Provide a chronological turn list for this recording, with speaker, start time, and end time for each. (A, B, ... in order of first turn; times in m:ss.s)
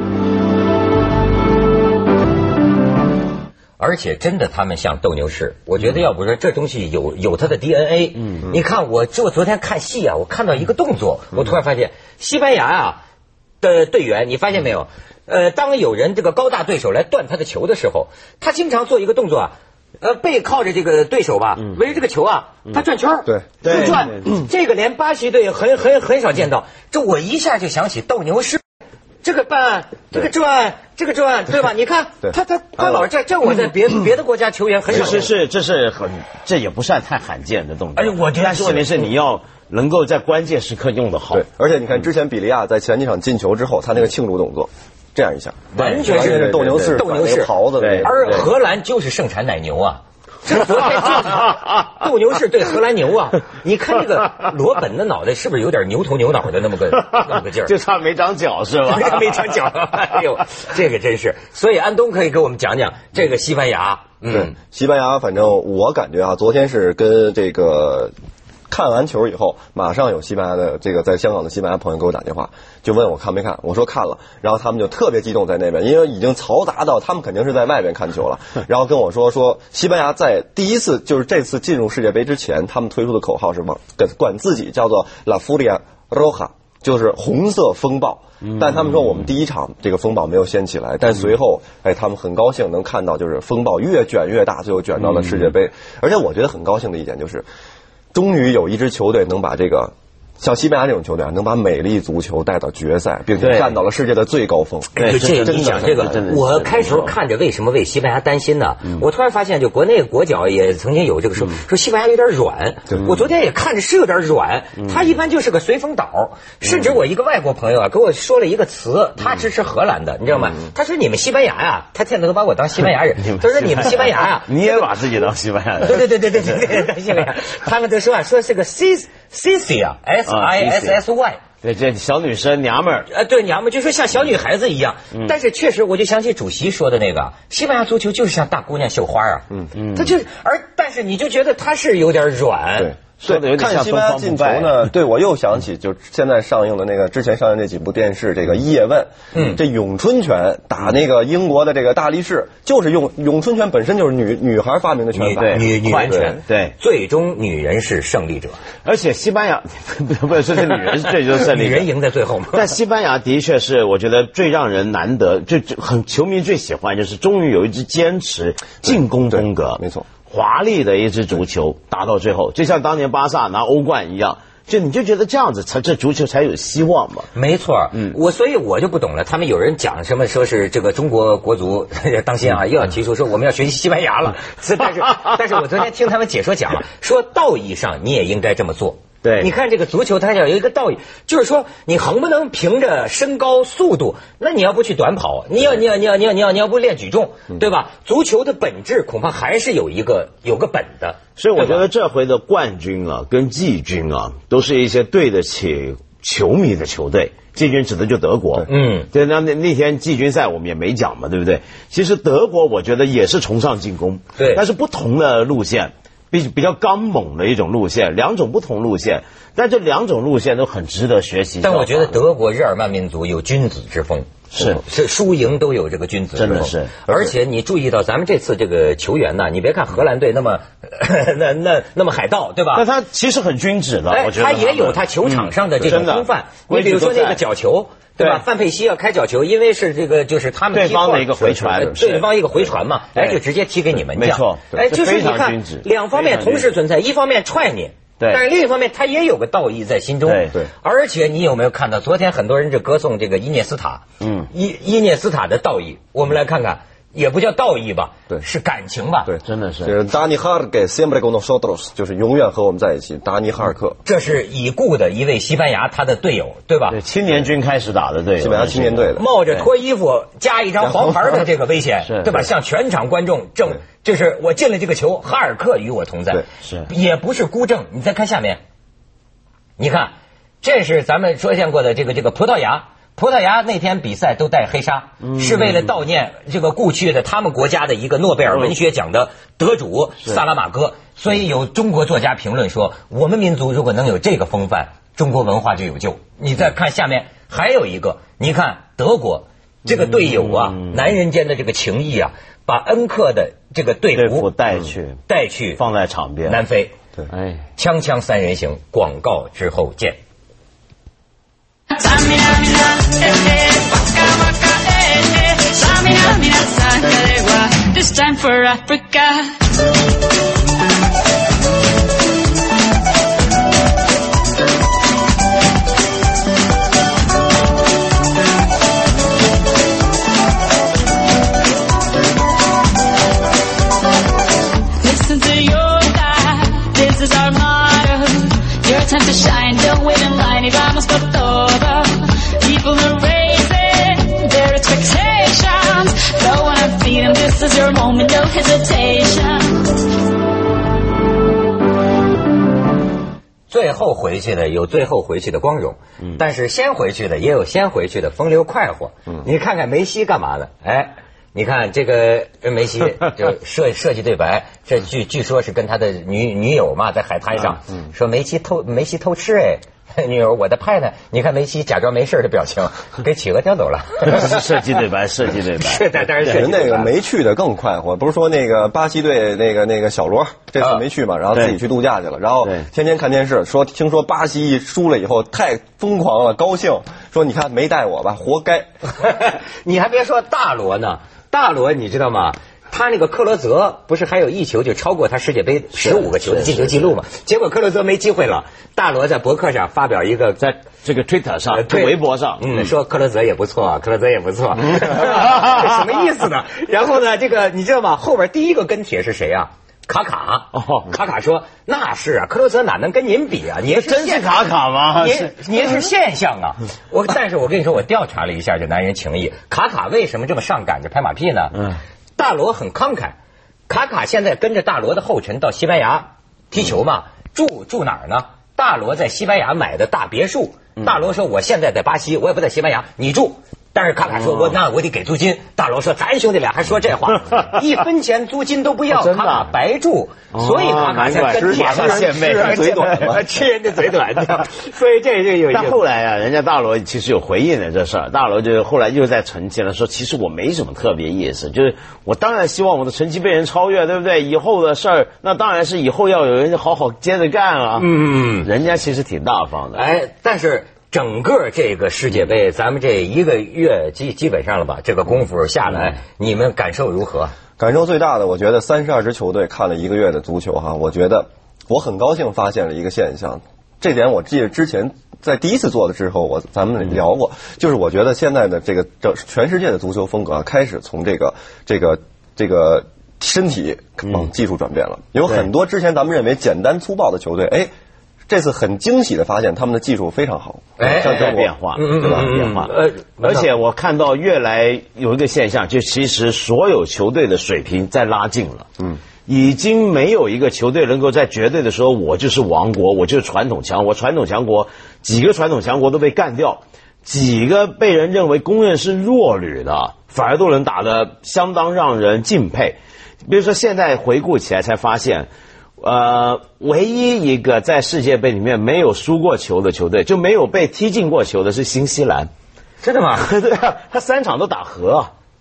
0:03.8-0:13.0 A
0:13.6-0:28.6 A
0:23.3-0:23.5 B
0:23.6-0:24.3 C
0:29.2-0:35.3 A
0:32.2-0:33.1 B
0:34.9-0:41.4 C
0:38.0-0:39.1 A
0:41.3-0:48.5 B
0:45.8-0:47.0 C
0:45.8-0:57.7 A
0:47.8-0:48.5 C
0:56.9-0:59.7 C
0:58.8-1:04.5 A
1:04.3-1:08.1 B
1:08.7-1:37.4 B
1:28.4-1:29.3 C
1:35.0-1:35.6 C
1:38.1-1:46.2 B
1:43.4-1:43.8 C
1:45.0-2:04.9 A
1:45.0-1:47.2 C
1:56.7-1:57.0 C
2:03.2-2:06.6 C
2:05.8-2:11.4 A
2:10.3-2:11.0 C
2:11.6-2:13.1 C
2:13.1-2:23.0 A
2:19.8-2:20.2 C
2:22.8-2:36.4 B
2:23.2-2:24.9 C
2:29.3-2:29.6 A
2:35.1-2:38.6 A
2:35.3-2:36.8 C
2:38.8-2:41.9 C
2:41.4-2:42.7 A
2:42.5-2:57.3 C
2:48.8-2:50.1 B
2:57.3-3:21.8 A
3:09.2-3:09.5 C
3:21.4-3:42.2 C
3:28.6-3:29.1 A
3:34.4-3:34.6 A
3:41.6-3:52.9 A
3:44.5-3:44.8 C
3:46.4-3:47.3 C
3:52.7-3:57.4 C
3:54.1-4:19.3 A
3:58.2-3:58.4 C
4:00.7-4:02.3 C
4:03.1-4:03.4 C
4:04.1-4:06.7 C
4:10.2-4:10.6 C
4:14.2-4:14.5 C
4:19.3-4:24.0 B
4:19.4-4:20.0 C
4:24.0-4:27.0 A
4:26.9-4:29.7 C
4:28.4-4:29.2 B
4:29.2-4:38.6 A
4:32.0-4:32.5 C
4:39.8-5:04.5 A
4:45.2-4:45.9 C
4:59.9-5:01.1 C
5:04.2-5:05.2 C
5:05.3-5:05.8 A
5:05.8-5:06.6 C
5:06.5-5:07.0 A
5:07.3-5:07.6 C
5:07.8-5:10.2 A
5:11.9-5:19.6 D
5:35.0-5:50.0 D
5:53.7-6:14.6 A
6:14.2-6:16.7 C
6:15.8-6:17.2 A
6:16.4-6:28.9 B
6:21.5-6:21.8 C
6:29.0-6:40.7 A
6:36.0-6:37.2 C
6:40.6-6:42.9 C
6:41.7-7:01.8 A
6:50.7-6:51.1 C
6:53.9-6:56.0 C
7:02.4-7:03.4 A
7:03.9-7:26.0 A
7:14.3-7:14.8 C
7:19.1-7:19.7 C
7:20.5-7:23.4 C
7:21.3-7:23.5 B
7:25.7-7:38.1 C
7:38.0-7:38.7 A
7:38.6-7:40.0 C
7:39.9-7:47.6 A
7:47.8-8:07.9 B
8:08.5-8:12.5 B
8:11.0-8:13.7 A
8:11.0-8:18.9 C
8:19.5-8:42.5 C
8:43.0-8:43.5 A
8:43.4-8:45.3 C